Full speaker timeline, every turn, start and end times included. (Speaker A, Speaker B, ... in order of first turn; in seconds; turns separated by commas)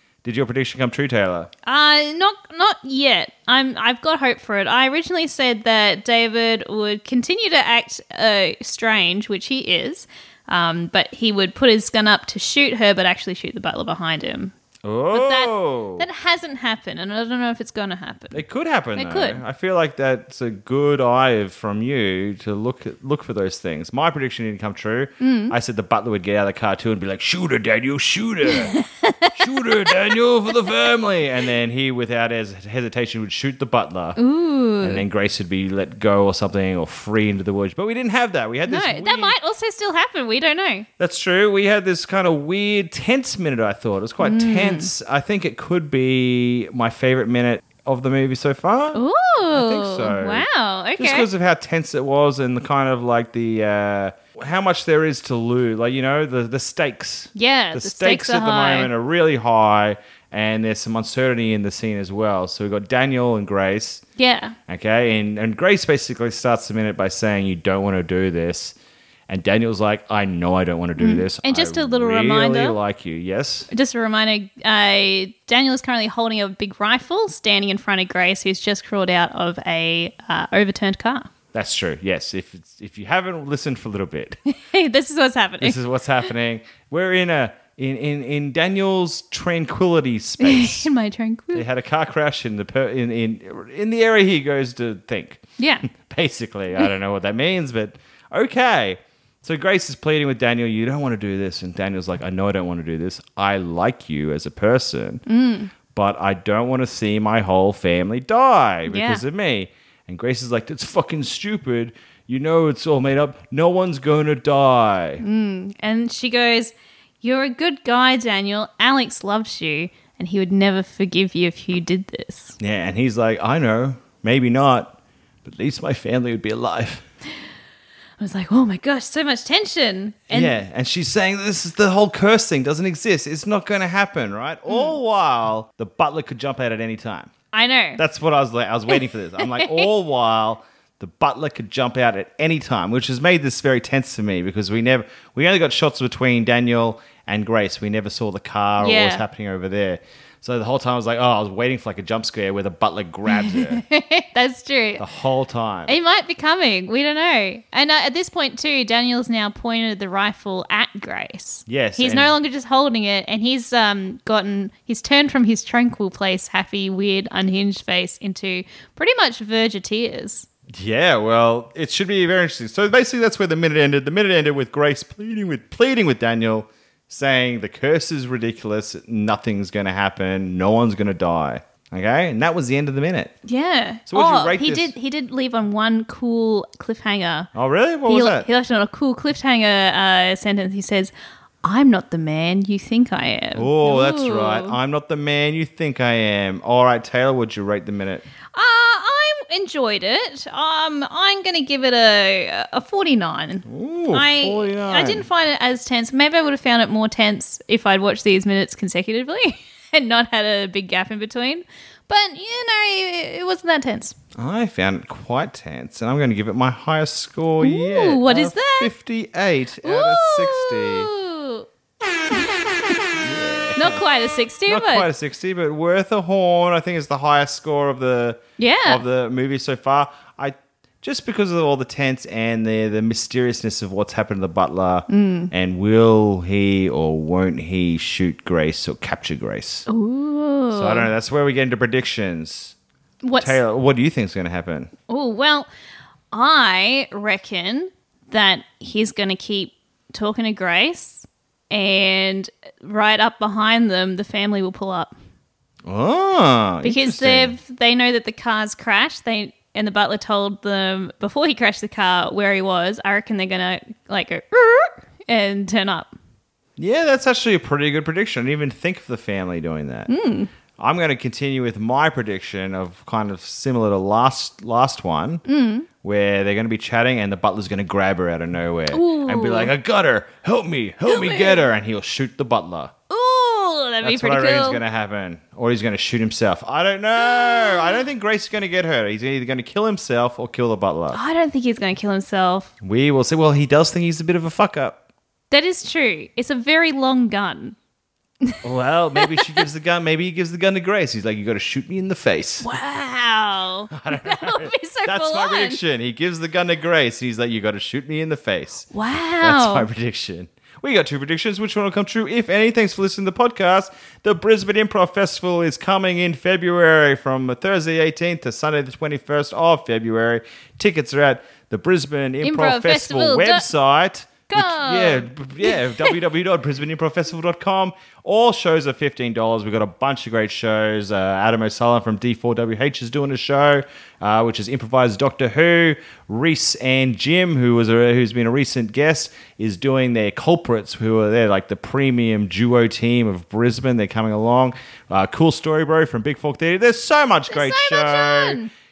Speaker A: 0.2-1.5, Speaker B: 1.6-14.5, Speaker A: 14.8-16.1, Speaker B: 15.1-18.4, Speaker A: 18.3-28.7, Speaker B: 19.0-19.4, Speaker B: 25.2-25.6, Speaker B: 28.5-29.8, Speaker A: 29.4-34.2, Speaker B: 34.2-35.0, Speaker A: 34.8-39.4, Speaker B: 38.7-40.9, Speaker A: 41.0-50.5, Speaker B: 44.2-44.9, Speaker B: 49.0-51.3, Speaker A: 51.0-64.0, Speaker B: 57.4-58.9, Speaker B: 64.2-64.5, Speaker A: 64.7-68.8, Speaker A: 69.3-73.7, Speaker B: 71.0-72.8, Speaker B: 73.7-81.3, Speaker A: 81.5-84.4, Speaker B: 84.6-85.8, Speaker A: 85.6-90.9, Speaker B: 90.4-91.7, Speaker A: 91.5-105.2, Speaker B: 95.6-95.9, Speaker B: 105.3-105.7, Speaker A: 105.9-115.2, Speaker B: 108.9-109.2, Speaker B: 115.2-122.5, Speaker A: 122.6-127.0, Speaker B: 128.2-130.6, Speaker A: 130.3-137.3, Speaker B: 134.7-135.0, Speaker B: 137.5-138.0, Speaker A: 138.0-153.8, Speaker B: 138.9-139.9, Speaker B: 148.8-149.2, Speaker B: 153.3-155.0, Speaker A: 155.0-156.0, Speaker B: 155.9-170.5, Speaker A: 161.7-162.3, Speaker A: 170.8-183.3, Speaker B: 183.5-187.5, Speaker A: 184.1-184.9, Speaker A: 187.6-188.5, Speaker B: 188.1-191.1, Speaker B: 191.6-194.8, Speaker A: 193.6-198.2, Speaker B: 198.5-214.2, Speaker A: 203.7-205.3, Speaker A: 214.4-221.1, Speaker B: 217.6-218.9, Speaker B: 219.8-221.7, Speaker A: 223.2-224.1, Speaker B: 223.8-225.1, Speaker A: 224.7-239.9, Speaker B: 228.6-229.0, Speaker B: 235.1-235.5, Speaker B: 239.9-241.1, Speaker A: 240.7-242.8, Speaker B: 243.2-243.6, Speaker A: 243.4-244.9, Speaker B: 245.1-245.7, Speaker B: 246.3-255.1, Speaker A: 255.9-257.6, Speaker B: 256.8-266.1, Speaker A: 266.8-270.1, Speaker B: 270.1-270.5, Speaker A: 270.8-275.4, Speaker B: 275.5-275.9, Speaker A: 276.0-282.9, Speaker B: 278.9-279.7, Speaker B: 281.1-281.7, Speaker B: 283.1-284.8, Speaker A: 284.0-291.2, Speaker B: 287.2-288.0, Speaker B: 291.1-292.7, Speaker A: 292.8-295.0, Speaker B: 295.5-297.8, Speaker A: 298.6-302.7, Speaker B: 302.6-305.8, Speaker A: 303.9-308.9, Speaker B: 308.9-309.9, Speaker A: 309.4-348.6, Speaker B: 322.4-323.7, Speaker B: 324.5-326.2, Speaker B: 347.5-348.7